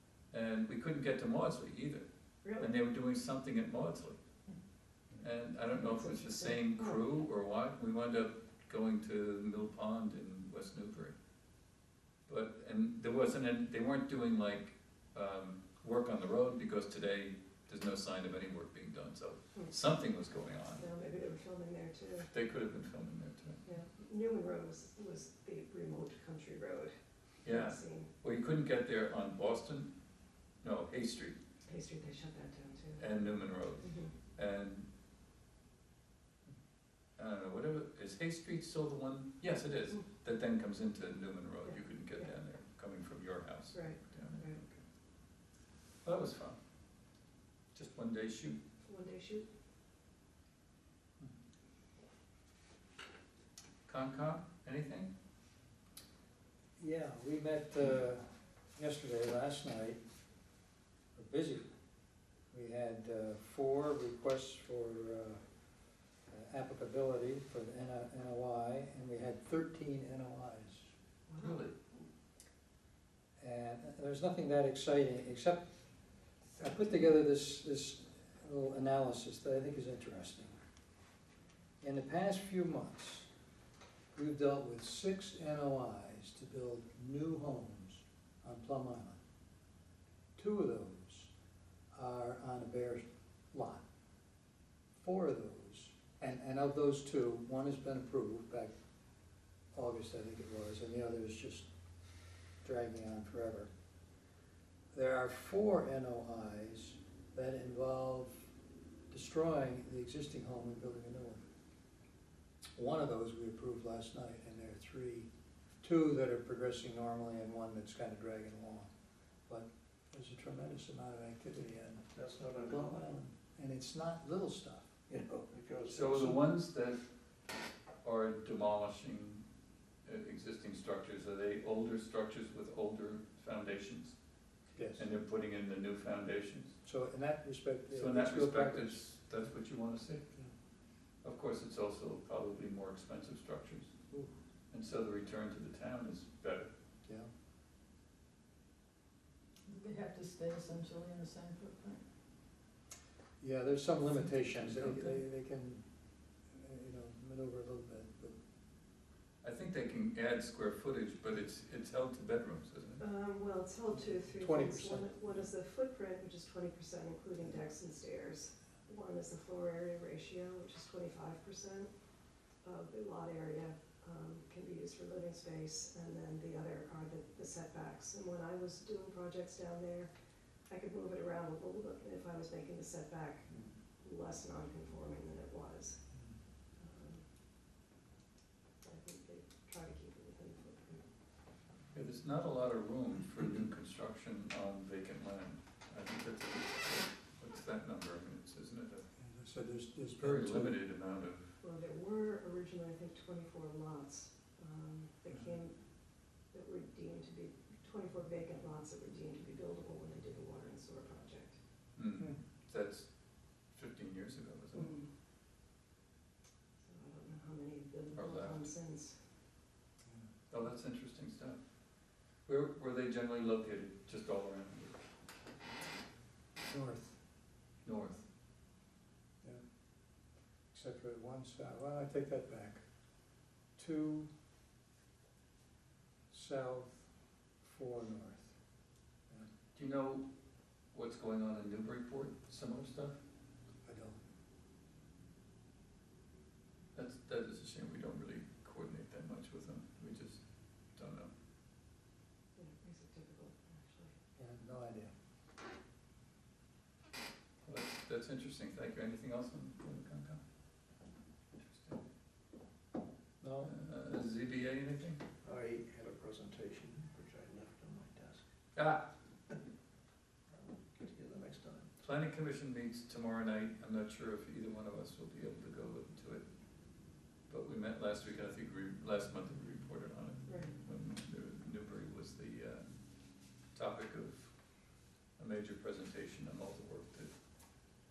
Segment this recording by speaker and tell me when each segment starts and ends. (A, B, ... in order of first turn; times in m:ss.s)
0:00.3-0:02.0 A
0:02.6-0:04.2 A
0:05.2-0:11.1 A
0:05.8-0:07.0 B
0:12.3-0:20.8 A
0:20.8-0:22.3 B
0:22.3-0:23.6 A
0:23.6-0:28.1 B
0:27.4-0:29.9 A
0:30.6-0:31.4 A
0:31.7-0:33.0 B
0:33.0-0:34.8 A
0:33.8-0:34.1 B
0:37.2-0:44.8 A
0:41.7-0:42.3 B
0:43.7-0:44.6 B
0:46.0-0:46.6 A
0:47.7-0:48.6 A
0:48.8-0:49.4 B
0:53.9-0:55.1 A
0:56.8-1:00.0 C
1:01.1-1:01.6 C
1:02.5-1:05.4 C
1:06.3-1:10.9 C
1:11.3-1:11.6 B
1:11.4-1:12.0 A
1:13.4-1:15.6 C
1:16.5-1:20.6 C
1:21.8-1:23.3 C
1:24.1-1:29.2 C
1:30.4-1:31.3 C
1:31.9-1:33.8 C
1:35.0-1:38.7 C
1:39.7-1:41.7 C
1:42.6-1:43.7 C
1:44.9-1:48.5 C
1:49.1-1:51.4 C
1:52.8-1:55.3 C
1:55.8-1:58.9 C
1:59.5-2:02.1 C
2:02.2-2:03.1 D
2:02.7-2:05.5 C
2:05.5-2:06.4 D
2:05.9-2:07.0 A
2:08.0-2:09.4 A
2:10.0-2:14.2 A
2:14.8-2:15.0 C
2:15.0-2:16.8 A
2:16.8-2:19.0 C
2:17.9-2:20.2 A
2:21.2-2:23.9 A
2:24.7-2:26.7 A
2:29.7-2:32.0 E
2:33.4-2:35.8 C
2:36.5-2:38.4 C
2:39.4-2:43.0 A
2:43.0-2:51.9 B
2:44.3-2:45.2 C
2:52.6-3:00.1 B
3:00.7-3:06.0 B
3:06.8-3:07.2 B
3:08.8-3:11.0 B
3:11.9-3:19.1 A
3:19.2-3:20.8 C
3:20.2-3:21.5 A
3:21.6-3:25.8 B
3:26.4-3:31.6 B
3:32.0-3:33.1 A
3:33.7-3:34.9 A
3:34.7-3:35.1 B
3:36.8-3:39.2 B
3:38.2-3:38.6 A
3:40.5-3:41.6 A
3:42.4-3:45.0 A
3:46.6-3:47.2 C
3:47.8-3:48.2 A
3:50.7-3:52.8 C
3:53.8-3:54.3 C
3:56.3-3:57.1 C
3:57.6-3:58.6 C
3:59.8-4:00.2 A
4:00.9-4:03.2 A
4:03.8-4:04.2 C
4:06.9-4:10.4 A
4:10.9-4:11.3 A
4:12.6-4:14.1 B
4:14.4-4:15.1 C
4:17.6-4:20.4 A
4:21.6-4:22.0 A
4:23.4-4:23.7 C
4:23.6-4:25.2 A
4:25.4-4:28.4 D
4:28.8-4:29.0 A
4:30.5-4:31.9 D
4:32.0-4:36.4 A
4:37.5-4:43.0 A
4:40.5-4:40.8 B
4:43.7-4:44.5 A
4:45.4-4:47.3 A